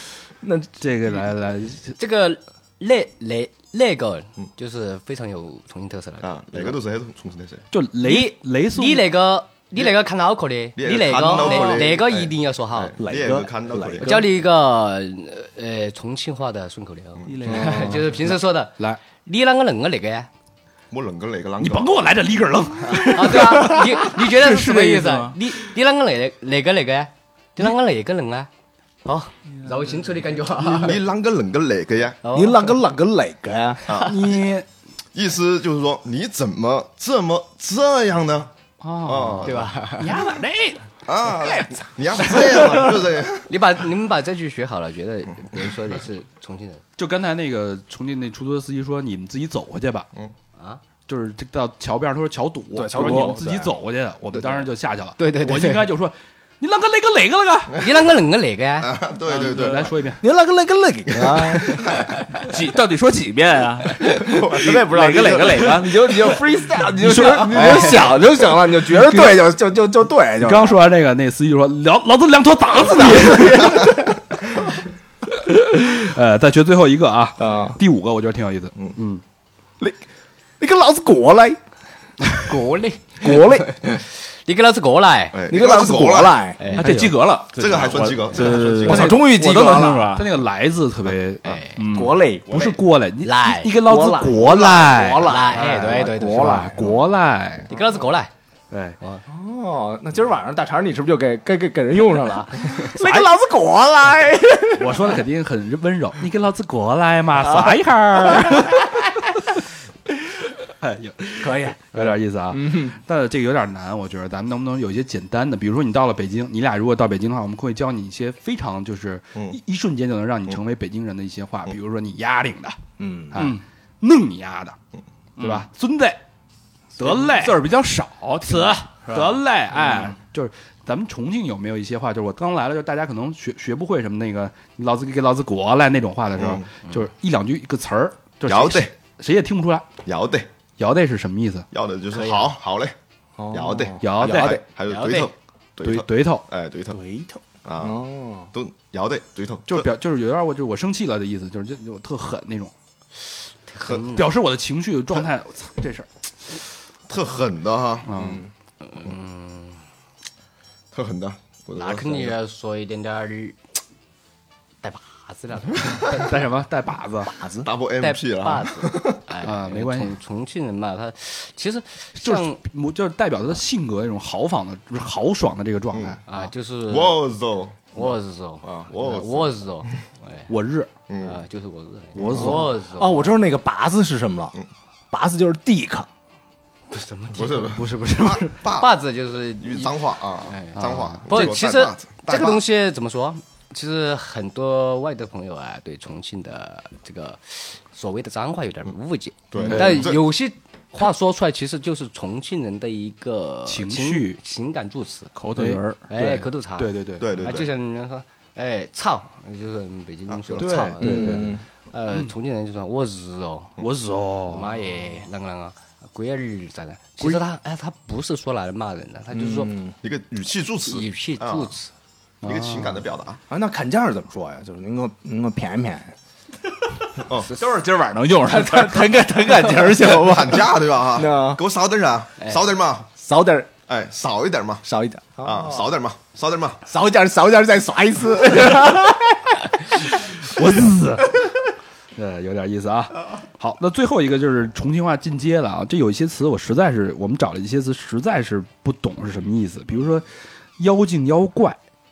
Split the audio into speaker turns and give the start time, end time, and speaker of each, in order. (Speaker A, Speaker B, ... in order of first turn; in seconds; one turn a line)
Speaker A: 0.4-0.7
Speaker B: 0.8-2.0
Speaker C: 2.0-6.8
Speaker D: 6.2-7.7
Speaker B: 7.7-9.1
Speaker C: 8.0-13.0
Speaker D: 10.8-14.3
Speaker A: 13.0-14.3
Speaker C: 14.0-20.3
Speaker E: 17.3-18.0
Speaker A: 17.4-18.0
Speaker B: 18.3-19.0
Speaker D: 20.9-22.0
Speaker B: 21.6-24.6
Speaker C: 22.9-28.5
Speaker E: 24.3-25.4
Speaker C: 29.1-31.0
Speaker D: 30.6-32.2
Speaker C: 32.2-32.8
Speaker A: 32.3-33.8
Speaker D: 33.9-34.4
Speaker B: 34.0-34.7
Speaker D: 35.1-38.5
Speaker B: 38.8-40.8
Speaker D: 39.0-39.8
Speaker C: 39.4-40.1
Speaker D: 41.1-43.5
Speaker C: 43.5-46.8
Speaker B: 47.0-50.1
Speaker B: 51.1-57.7
Speaker A: 52.7-53.7
Speaker E: 53.0-53.3
Speaker D: 54.3-54.6
Speaker C: 55.2-55.9
Speaker C: 57.8-58.9
Speaker D: 58.8-59.9
Speaker B: 59.3-60.2
Speaker A: 60.2-61.8
Speaker E: 62.4-66.4
Speaker A: 64.4-70.8
Speaker B: 67.0-68.0
Speaker B: 70.4-74.1
Speaker A: 72.7-74.2
Speaker B: 75.3-79.2
Speaker A: 77.4-77.8
Speaker A: 80.6-81.6
Speaker C: 82.4-85.4
Speaker A: 83.2-84.0
Speaker D: 85.3-86.4
Speaker A: 85.5-86.6
Speaker C: 86.6-86.9
Speaker E: 86.7-90.3
Speaker B: 86.8-87.2
Speaker D: 87.5-89.2
Speaker A: 88.8-90.1
Speaker B: 88.8-97.7
Speaker C: 91.4-91.8
Speaker E: 91.8-92.1
Speaker A: 91.9-92.8
Speaker C: 93.2-93.8
Speaker A: 93.8-97.0
Speaker C: 95.2-96.7
Speaker C: 97.7-98.3
Speaker B: 98.7-99.0
Speaker A: 99.3-105.2
Speaker B: 103.0-103.3
Speaker B: 104.8-109.0
Speaker A: 107.4-107.7
Speaker A: 108.3-108.7
Speaker B: 110.8-122.8
Speaker A: 111.4-113.0
Speaker A: 123.0-123.5
Speaker B: 123.3-124.8
Speaker E: 125.4-125.7
Speaker B: 125.4-126.2
Speaker B: 127.0-127.6
Speaker E: 127.0-129.4
Speaker B: 128.4-139.9
Speaker D: 136.4-136.7
Speaker D: 138.4-138.9
Speaker D: 140.1-140.5
Speaker B: 140.8-141.7
Speaker D: 141.7-142.9
Speaker A: 143.4-144.5
Speaker D: 143.5-147.0
Speaker B: 144.0-144.6
Speaker C: 144.9-145.3
Speaker B: 145.8-146.5
Speaker A: 146.9-148.5
Speaker D: 147.7-149.9
Speaker B: 149.7-152.7
Speaker C: 153.7-154.3
Speaker B: 154.1-156.1
Speaker D: 157.1-158.1
Speaker B: 158.1-158.4
Speaker A: 158.2-158.5
Speaker C: 158.8-159.8
Speaker D: 160.9-162.3
Speaker C: 161.8-163.6
Speaker C: 164.8-166.3
Speaker B: 166.1-167.6
Speaker D: 167.6-169.2
Speaker C: 168.0-172.6
Speaker B: 169.4-170.2
Speaker B: 172.2-176.2
Speaker D: 175.9-176.2
Speaker C: 176.3-177.2
Speaker D: 176.9-179.6
Speaker C: 177.9-180.5
Speaker B: 180.5-180.9
Speaker D: 181.1-181.4
Speaker C: 181.2-183.4
Speaker B: 182.2-182.7
Speaker A: 182.3-184.6
Speaker A: 185.1-186.1
Speaker C: 186.9-205.3
Speaker D: 187.3-189.0
Speaker D: 189.6-192.6
Speaker B: 190.8-191.5
Speaker D: 199.5-200.2
Speaker B: 199.6-200.1
Speaker B: 203.7-204.4
Speaker E: 205.4-206.1
Speaker B: 205.6-207.3
Speaker C: 206.1-213.8
Speaker D: 207.2-207.7
Speaker D: 210.3-210.9
Speaker B: 210.6-211.6
Speaker A: 211.0-211.6
Speaker B: 213.8-214.7
Speaker C: 214.5-219.8
Speaker A: 219.3-219.9
Speaker D: 220.0-221.7
Speaker C: 220.9-221.9
Speaker B: 222.4-223.0
Speaker D: 222.4-223.4
Speaker A: 223.5-226.2
Speaker E: 227.6-230.4
Speaker A: 228.4-231.6
Speaker D: 230.2-233.1
Speaker C: 232.4-232.6
Speaker A: 233.2-233.7
Speaker D: 233.9-234.8
Speaker A: 234.8-235.9
Speaker D: 235.4-236.8
Speaker A: 236.9-239.6
Speaker B: 240.4-241.3
Speaker B: 242.2-250.3
Speaker B: 250.8-251.8